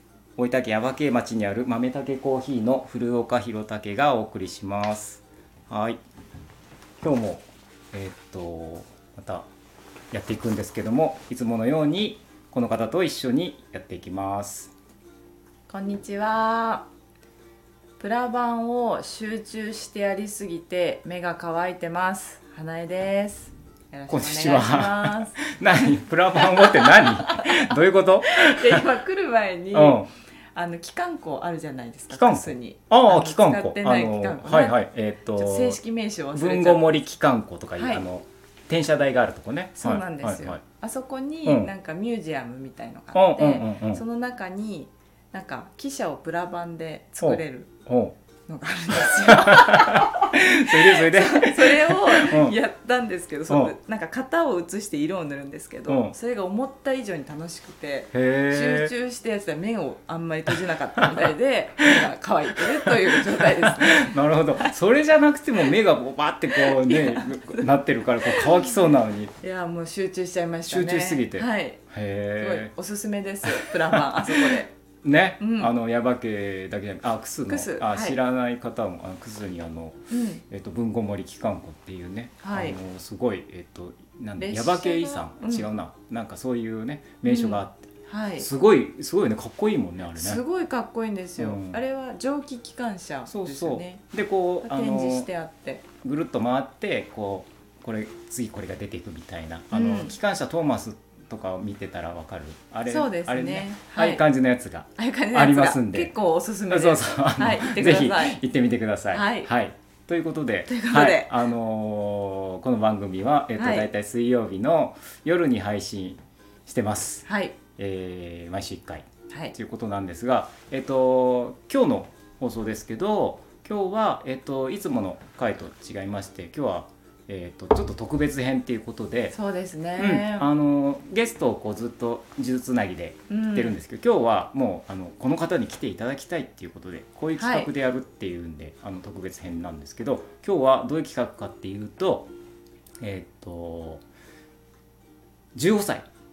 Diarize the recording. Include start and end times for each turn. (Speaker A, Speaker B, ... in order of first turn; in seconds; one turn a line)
Speaker A: 0.3-6.0
Speaker A: 7.0-9.5
Speaker A: 10.1-14.7
Speaker B: 15.7-16.9
Speaker B: 18.0-25.6
Speaker A: 24.1-28.8
Speaker B: 26.4-27.8
Speaker B: 28.3-34.8
Speaker A: 29.7-30.1
Speaker A: 32.1-35.8
Speaker B: 35.3-37.0
Speaker A: 36.3-40.6
Speaker B: 37.8-38.0
Speaker B: 39.8-47.7
Speaker A: 41.4-41.7
Speaker A: 43.1-44.0
Speaker A: 47.2-48.1
Speaker B: 48.5-64.7
Speaker A: 49.0-52.6
Speaker A: 53.5-53.7
Speaker A: 55.9-56.1
Speaker A: 58.1-58.9
Speaker A: 61.0-61.3
Speaker A: 62.6-69.3
Speaker B: 66.6-67.6
Speaker B: 68.3-68.8
Speaker B: 69.4-71.8
Speaker A: 70.7-72.7
Speaker B: 72.4-74.7
Speaker A: 73.5-90.4
Speaker B: 75.4-75.7
Speaker B: 77.5-78.2
Speaker B: 80.1-80.4
Speaker B: 82.4-82.8
Speaker B: 84.4-85.7
Speaker B: 87.2-88.5
Speaker B: 90.1-94.0
Speaker A: 91.4-91.8
Speaker A: 93.3-95.3
Speaker B: 94.6-95.8
Speaker A: 96.0-106.1
Speaker B: 99.7-100.1
Speaker B: 102.8-104.2
Speaker B: 105.0-108.4
Speaker A: 106.7-129.4
Speaker B: 109.1-109.5
Speaker B: 110.7-111.4
Speaker B: 113.5-113.9
Speaker B: 117.3-117.6
Speaker B: 119.3-119.5
Speaker B: 129.3-130.5
Speaker A: 129.9-142.3
Speaker B: 133.3-133.8
Speaker B: 137.4-137.7
Speaker A: 143.0-144.0
Speaker A: 145.5-146.1